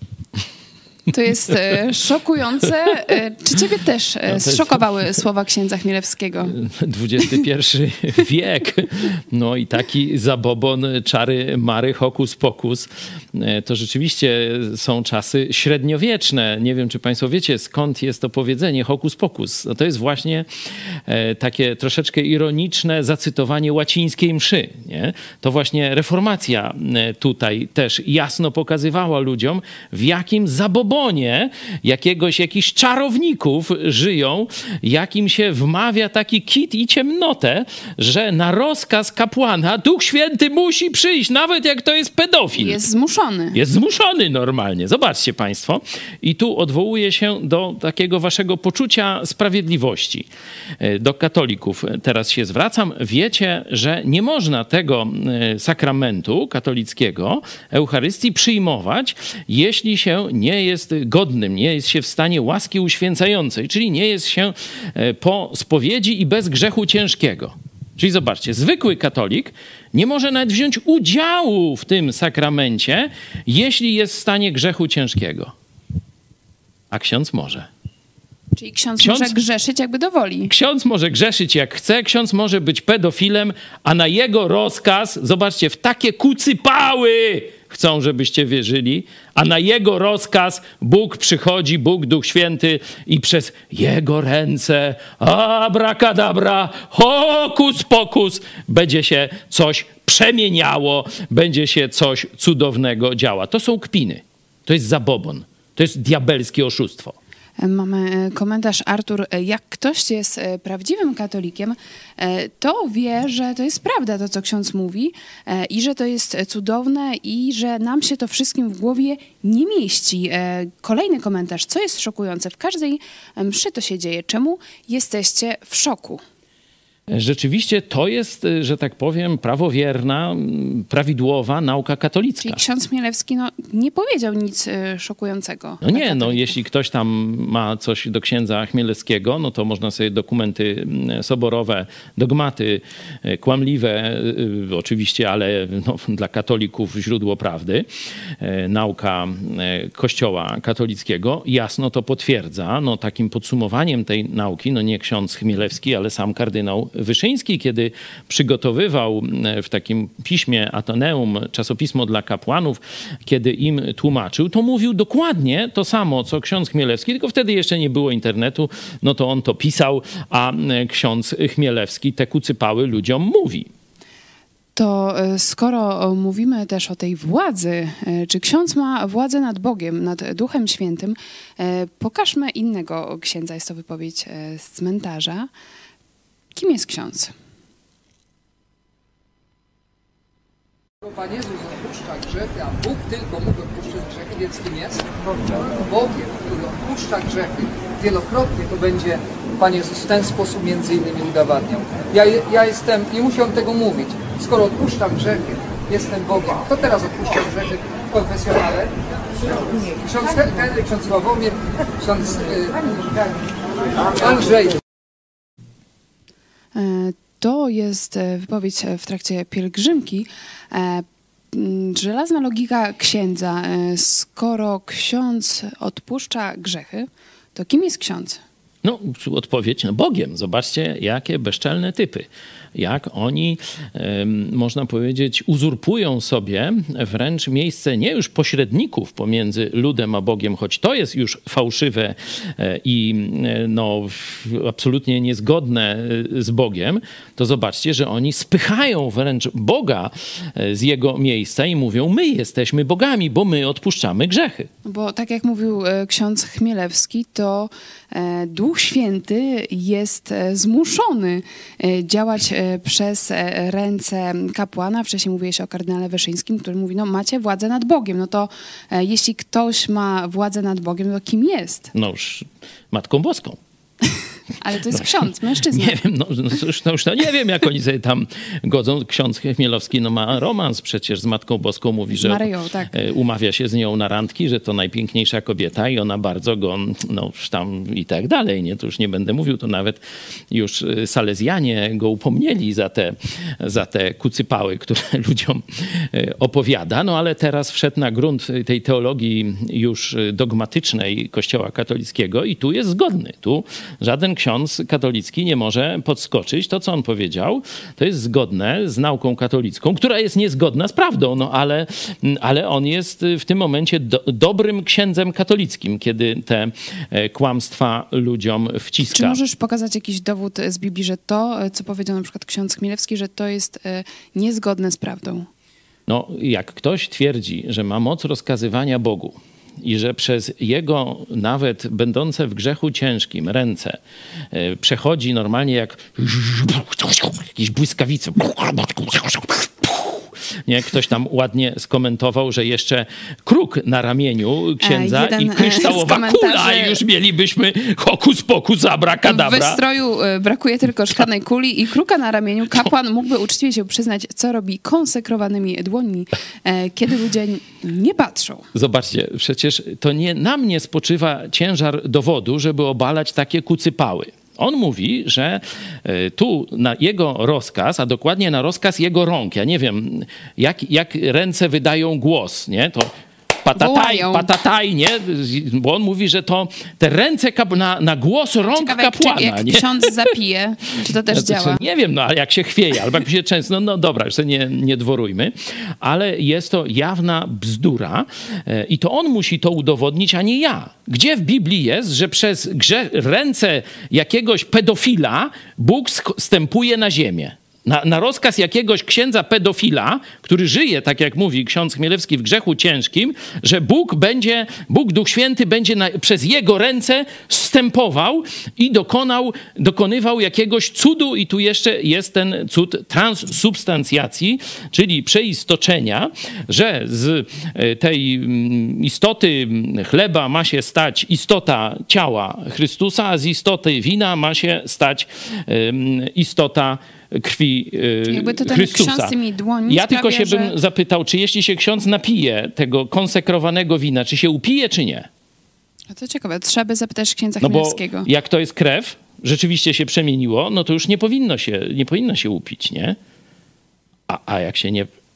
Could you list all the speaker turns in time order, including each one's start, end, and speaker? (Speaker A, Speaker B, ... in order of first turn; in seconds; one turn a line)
Speaker A: 1.1-6.5
Speaker B: 4.3-4.8
Speaker B: 6.4-42.8
Speaker A: 42.6-43.6
Speaker B: 43.5-50.3
Speaker B: 50.8-75.5
Speaker B: 76.9-77.7
Speaker A: 78.6-80.5
Speaker B: 79.0-79.4
Speaker B: 80.4-107.2
Speaker A: 107.6-126.2
Speaker B: 127.1-132.6
Speaker A: 132.4-136.6
Speaker B: 135.8-147.9
Speaker B: 148.4-173.7
Speaker A: 174.8-185.5
Speaker A: 186.5-187.3
Speaker C: 191.0-208.9
Speaker C: 209.5-213.2
Speaker C: 214.1-214.8
Speaker A: 216.7-228.4
Speaker B: 228.8-254.7
Speaker A: 254.8-271.9
Speaker B: 271.9-273.6
Speaker A: 274.6-276.0
Speaker B: 274.9-319.4
Speaker A: 282.1-282.9
Speaker A: 319.1-325.5
Speaker B: 326.1-334.0
Speaker B: 334.5-349.8
Speaker A: 344.8-347.0
Speaker A: 349.2-358.7
Speaker B: 358.7-373.1
Speaker B: 373.6-380.1
Speaker A: 373.7-374.5
Speaker A: 378.7-381.8
Speaker B: 381.3-429.3
Speaker A: 428.3-430.7
Speaker B: 429.9-435.3
Speaker A: 436.1-438.3
Speaker B: 437.6-443.2
Speaker B: 444.3-445.1